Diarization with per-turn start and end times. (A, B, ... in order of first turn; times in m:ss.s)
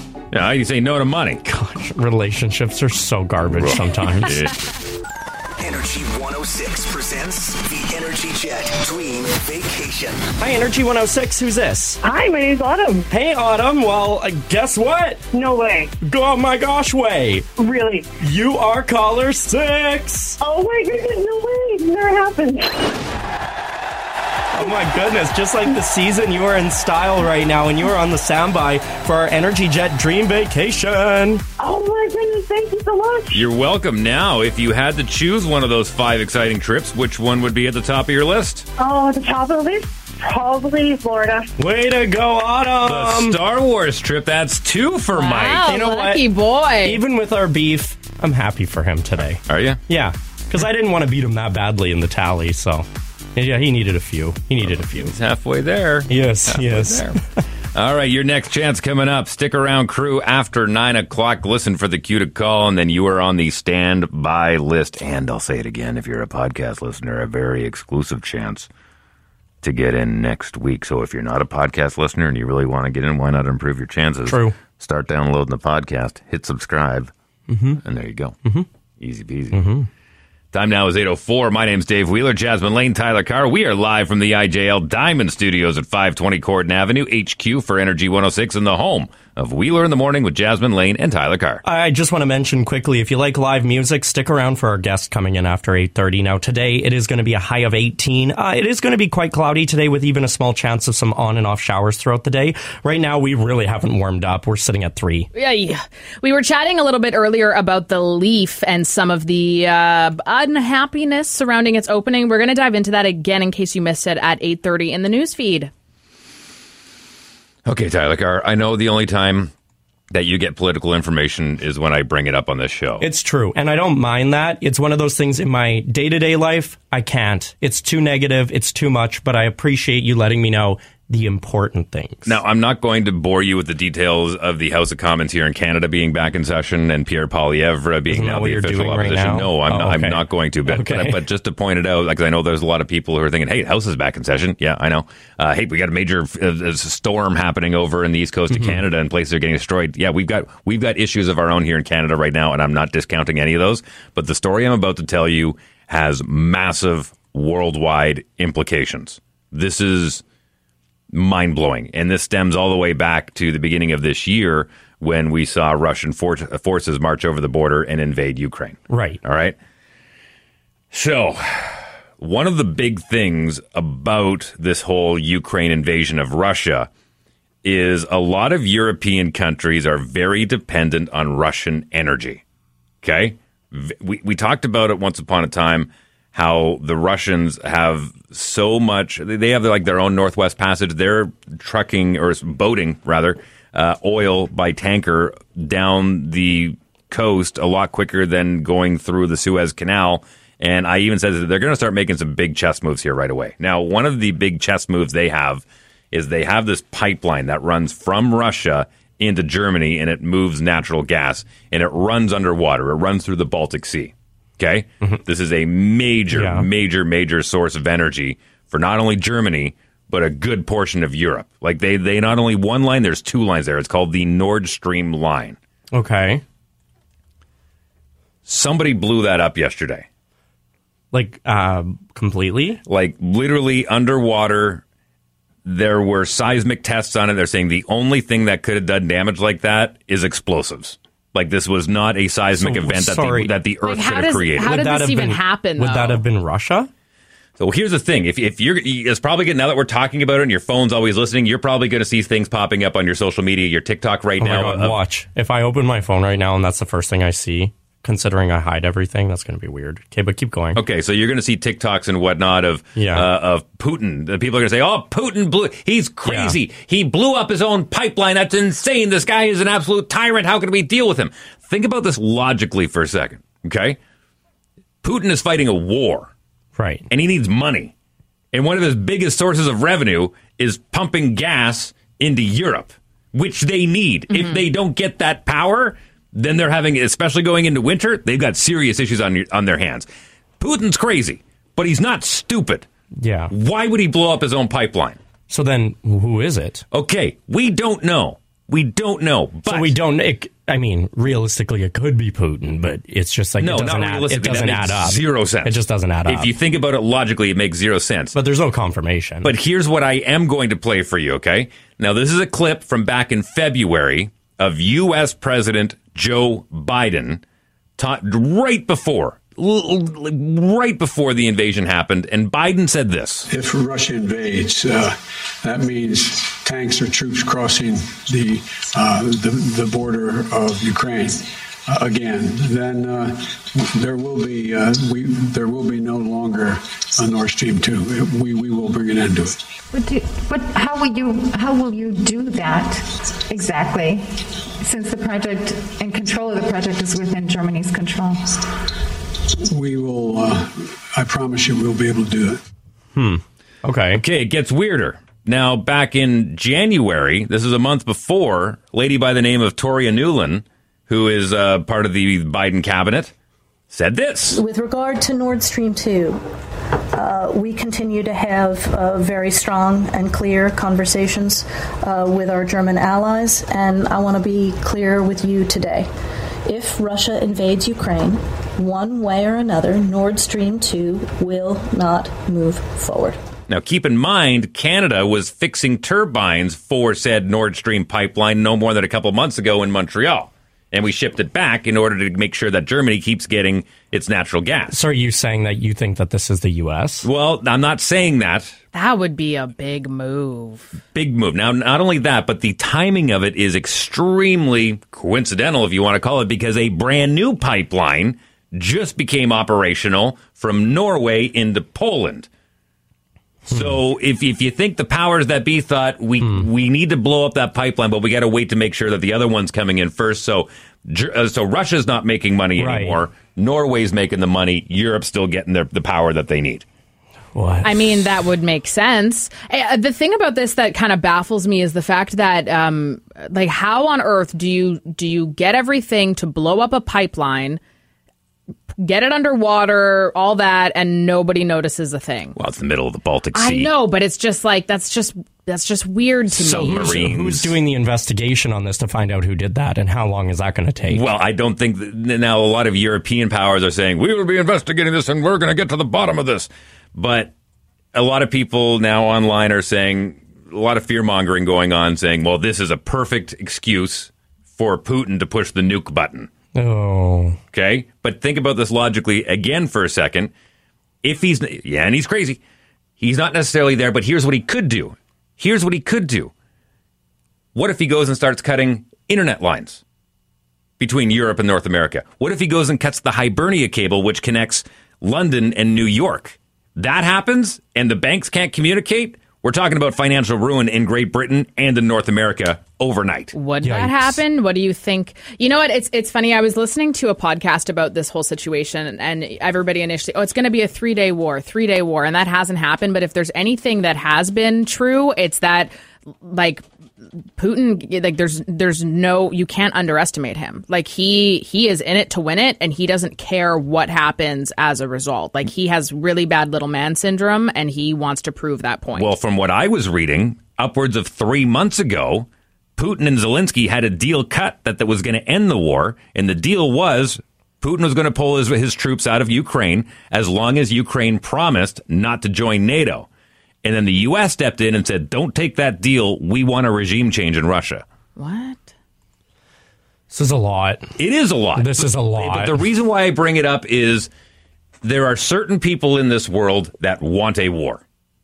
0:00.3-0:01.4 A
0:01.4-0:04.4 B
0:03.5-0:04.6 A
0:05.6-0:10.3 C
0:10.4-0:12.0 B
0:12.0-0:13.1 D
0:13.1-0:15.2 B
0:15.3-0:16.0 D
0:16.0-0:17.5 B
0:17.6-0:18.1 D
0:18.2-0:20.4 B
0:20.4-0:23.0 D
0:24.5-0:31.4 B
0:24.6-0:24.9 D
0:31.6-0:33.4 D
0:33.3-0:38.7 A
0:38.8-0:41.5 D
0:41.6-0:43.4 B
0:42.8-0:45.7 A
0:45.2-0:47.0 E
0:45.7-0:46.3 B
0:46.8-0:55.2 B
0:49.5-0:49.8 A
0:54.6-0:57.2 A
0:56.1-0:57.1 B
0:57.8-1:08.7 A
1:09.6-1:17.1 A
1:14.3-1:14.6 B
1:17.5-1:17.8 B
1:17.8-1:18.4 A
1:19.0-1:19.6 A
1:19.5-1:19.9 B
1:20.5-1:31.6 A
1:31.6-1:45.3 B
1:45.4-1:55.7 E
1:57.7-1:59.5 A
2:00.1-2:03.0 A
2:03.0-2:12.4 B
2:12.3-2:40.2 A
2:18.1-2:21.2 B
2:28.5-2:28.8 B
2:41.1-2:49.6 A
2:48.9-2:49.2 B
2:50.9-2:56.9 A
2:57.6-3:02.4 A
3:03.0-3:45.6 A
3:36.3-3:36.7 B
3:45.9-3:46.4 B
3:48.5-3:50.1 A
3:51.1-3:52.8 B
3:52.9-3:54.8 A
3:55.6-4:04.8 A
4:02.6-4:03.5 B
4:03.8-4:06.2 E
4:04.6-4:06.9 B
4:07.6-4:15.0 A
4:14.4-4:20.8 B
4:20.8-4:34.0 A
4:23.0-4:23.3 B
4:26.3-4:26.6 B
4:35.0-4:36.3 A
4:36.8-4:37.0 B
4:37.1-4:37.9 A
4:38.5-4:50.1 A
4:44.3-4:44.6 E
4:50.6-4:52.9 A
4:53.2-4:53.5 B
4:53.5-4:55.2 A
4:55.5-4:56.8 B
4:56.9-5:00.0 A
4:59.7-5:06.5 B
5:03.6-5:08.4 A
5:08.4-5:09.5 B
5:09.4-5:17.4 A
5:18.0-5:23.5 A
5:23.5-5:39.6 F
5:39.9-5:48.6 G
5:49.7-5:52.6 F
5:53.2-5:54.2 B
5:54.2-6:03.3 A
6:03.9-6:04.6 A
6:04.5-6:06.4 H
6:07.1-6:16.1 H
6:16.7-6:23.4 H
6:23.7-6:34.9 A
6:34.9-6:37.3 B
6:37.2-6:38.8 A
6:38.9-6:40.9 E
6:41.1-6:52.5 A
6:53.7-6:54.0 B
6:53.7-7:06.8 A
6:56.4-6:56.7 B
7:02.8-7:03.2 B
7:07.6-7:08.0 B
7:07.8-7:17.8 E
7:19.0-7:22.6 E
7:22.6-7:23.9 A
7:23.5-7:27.2 E
7:26.6-7:27.8 A
7:26.6-7:31.2 B
7:31.1-7:37.5 A
7:38.1-7:46.5 A
7:46.8-7:47.6 B
7:47.7-7:50.5 A
7:51.2-7:52.6 A
7:53.2-7:56.5 A
7:57.8-8:00.0 A
8:01.0-8:13.5 A
8:13.5-8:26.8 E
8:13.8-8:14.4 B
8:27.6-8:39.3 E
8:39.2-8:53.3 A
8:53.8-8:58.0 A
8:58.4-8:58.9 E
9:00.3-9:01.1 B
9:01.2-9:04.3 A
9:01.8-9:02.8 B
9:05.0-9:08.0 A